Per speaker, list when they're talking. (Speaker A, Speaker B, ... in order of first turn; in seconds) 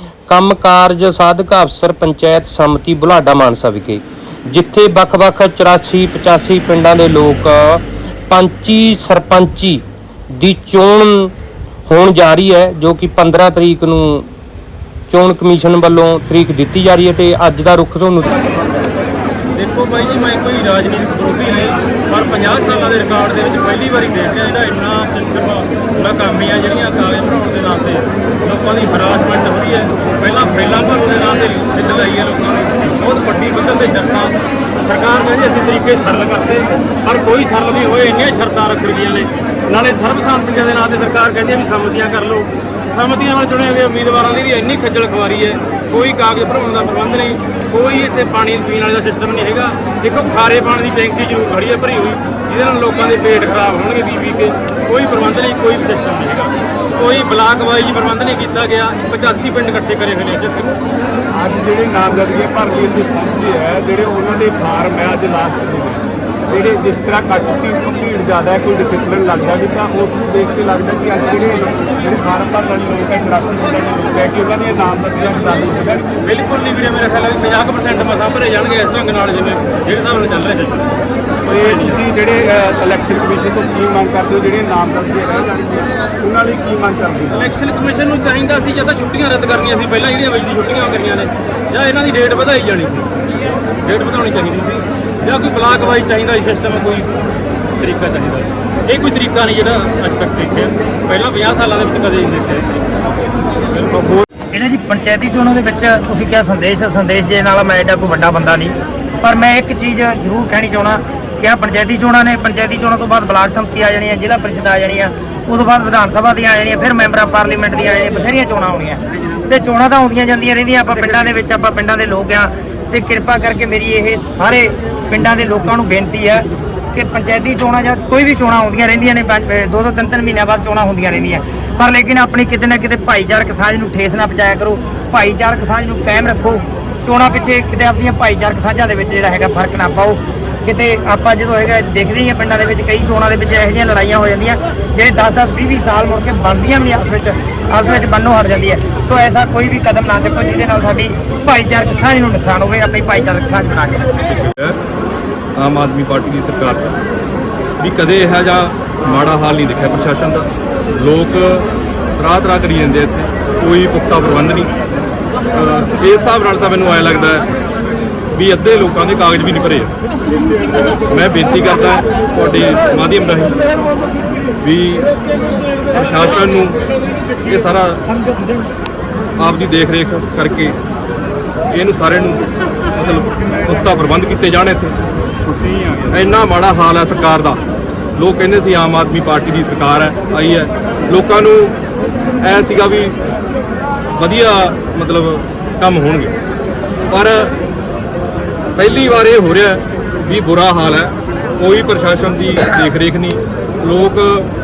Speaker A: 0.3-11.3, 11.9-14.2, 15.1-18.4
Speaker B: 19.6-60.7, 76.2-80.9, 81.4-82.0, 87.3-93.1, 93.8-97.1, 97.8-102.8, 103.7-104.0
Speaker C: 61.3-76.1, 81.5-87.4, 185.7-186.1
Speaker D: 104.5-154.1
Speaker E: 154.2-154.8, 155.6-157.0, 157.8-161.7, 162.2-164.7, 165.5-167.4, 168.3-169.9, 171.1-173.6, 174.6-175.1, 175.9-176.8, 177.4-178.0, 179.4-180.8, 181.7-185.0, 186.1-187.6, 188.2-191.8, 192.4-193.1, 194.2-196.3, 197.1-197.5, 198.8-204.5